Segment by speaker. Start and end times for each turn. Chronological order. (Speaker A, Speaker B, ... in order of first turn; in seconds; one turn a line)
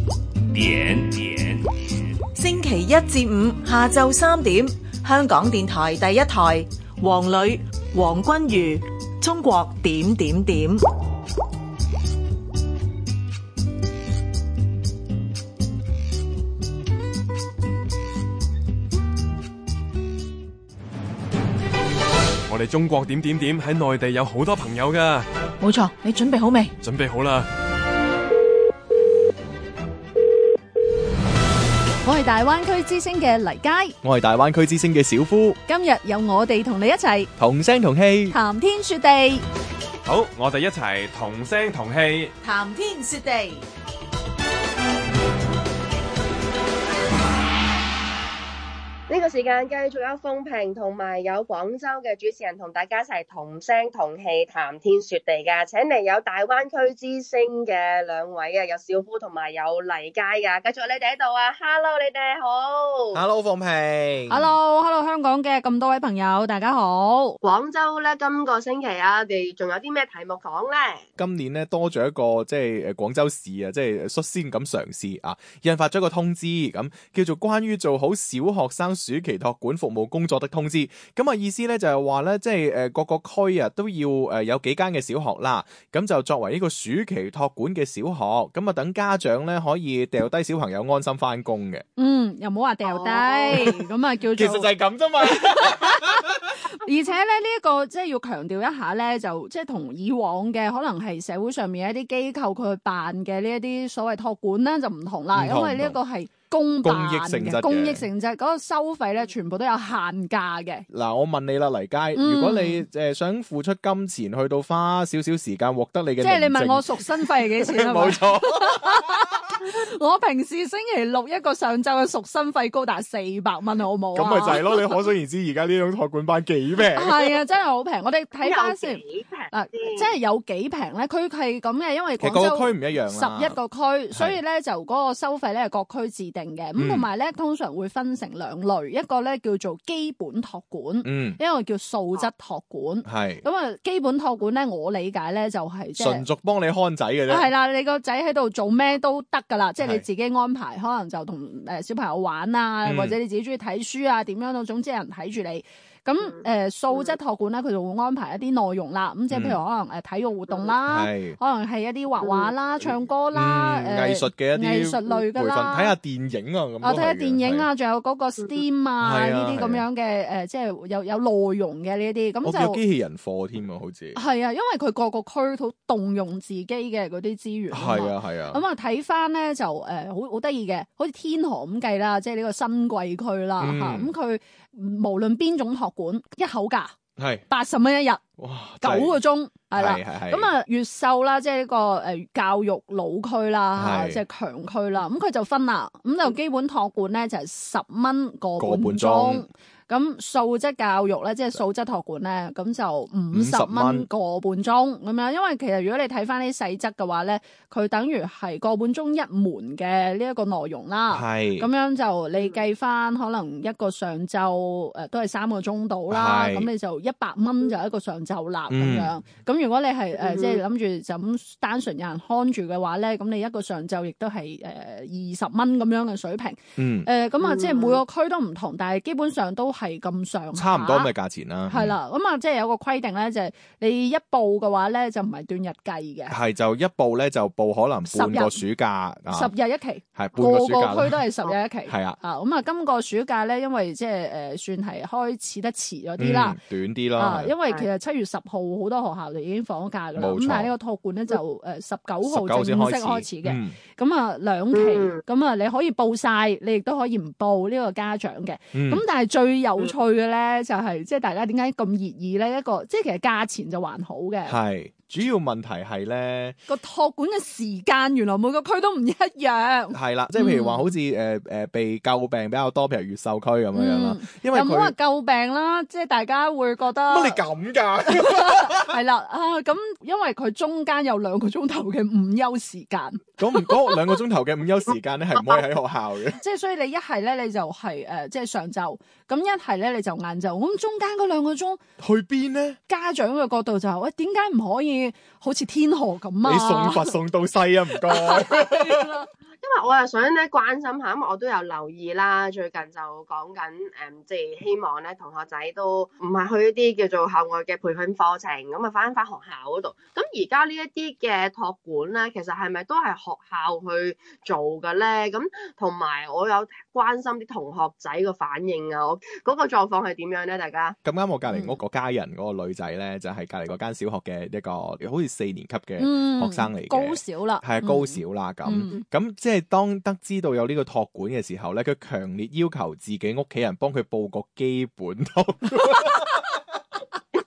Speaker A: 2.4-10.8
Speaker B: 22.5-25.3
Speaker A: 25.9-26.3
Speaker B: 26.8-27.5
Speaker C: 32.0-34.0
Speaker D: 34.0-35.6
Speaker C: 35.7-37.3
Speaker D: 37.4-38.4
Speaker C: 38.3-39.4
Speaker B: 40.1-42.3
Speaker A: 42.4-43.6
Speaker E: 49.1-63.2
Speaker D: 63.1-64.6
Speaker C: 64.3-67.4
Speaker E: 67.4-71.0
Speaker D: 71.2-91.8
Speaker C: 92.0-94.7
Speaker E: 92.9-93.7
Speaker D: 94.4-96.3
Speaker C: 95.3-110.9
Speaker D: 105.3-106.0
Speaker D: 106.8-108.1
Speaker D: 110.9-119.3
Speaker C: 112.2-112.8
Speaker C: 116.2-124.9
Speaker D: 124.2-127.4
Speaker C: 126.8-146.2
Speaker E: 128.4-130.1
Speaker D: 132.2-133.6
Speaker D: 136.8-137.1
Speaker D: 141.0-141.4
Speaker D: 143.1-143.4
Speaker D: 146.0-147.5
Speaker C: 147.3-166.0
Speaker D: 149.8-150.1
Speaker D: 152.8-153.2
Speaker D: 159.3-159.6
Speaker D: 160.8-161.4
Speaker E: 162.2-162.5
Speaker D: 163.3-167.7
Speaker C: 166.8-172.8
Speaker D: 169.0-169.8
Speaker D: 172.4-174.2
Speaker C: 174.2-186.9
Speaker D: 177.7-178.6
Speaker D: 183.6-184.1
Speaker D: 187.2-187.4
Speaker C: 187.5-188.2
Speaker D: 188.4-189.2
Speaker C: 188.8-231.1
Speaker D: 189.7-190.5
Speaker D: 193.8-194.2
Speaker D: 198.6-199.5
Speaker D: 203.3-204.1
Speaker D: 211.1-211.7
Speaker D: 216.1-216.7
Speaker D: 218.7-219.1
Speaker E: 220.2-220.6
Speaker D: 226.8-227.1
Speaker E: 227.4-228.0
Speaker D: 230.6-232.0
Speaker C: 231.7-236.4
Speaker D: 236.3-239.5
Speaker C: 238.1-238.6
Speaker C: 239.3-246.6
Speaker D: 240.2-241.3
Speaker D: 241.9-242.2
Speaker D: 246.2-247.5
Speaker C: 247.2-264.6
Speaker D: 250.2-250.7
Speaker D: 252.3-253.8
Speaker E: 254.7-255.2
Speaker D: 258.7-259.0
Speaker D: 264.5-266.6
Speaker C: 266.7-270.9
Speaker D: 269.9-274.9
Speaker C: 273.7-277.4
Speaker D: 277.1-278.9
Speaker C: 278.1-284.0
Speaker D: 283.4-286.4
Speaker C: 286.4-291.8
Speaker D: 292.0-292.8
Speaker C: 292.9-297.1
Speaker D: 296.4-299.1
Speaker C: 298.1-299.3
Speaker E: 299.6-321.0
Speaker D: 321.0-336.4
Speaker C: 321.5-321.8
Speaker C: 326.0-329.0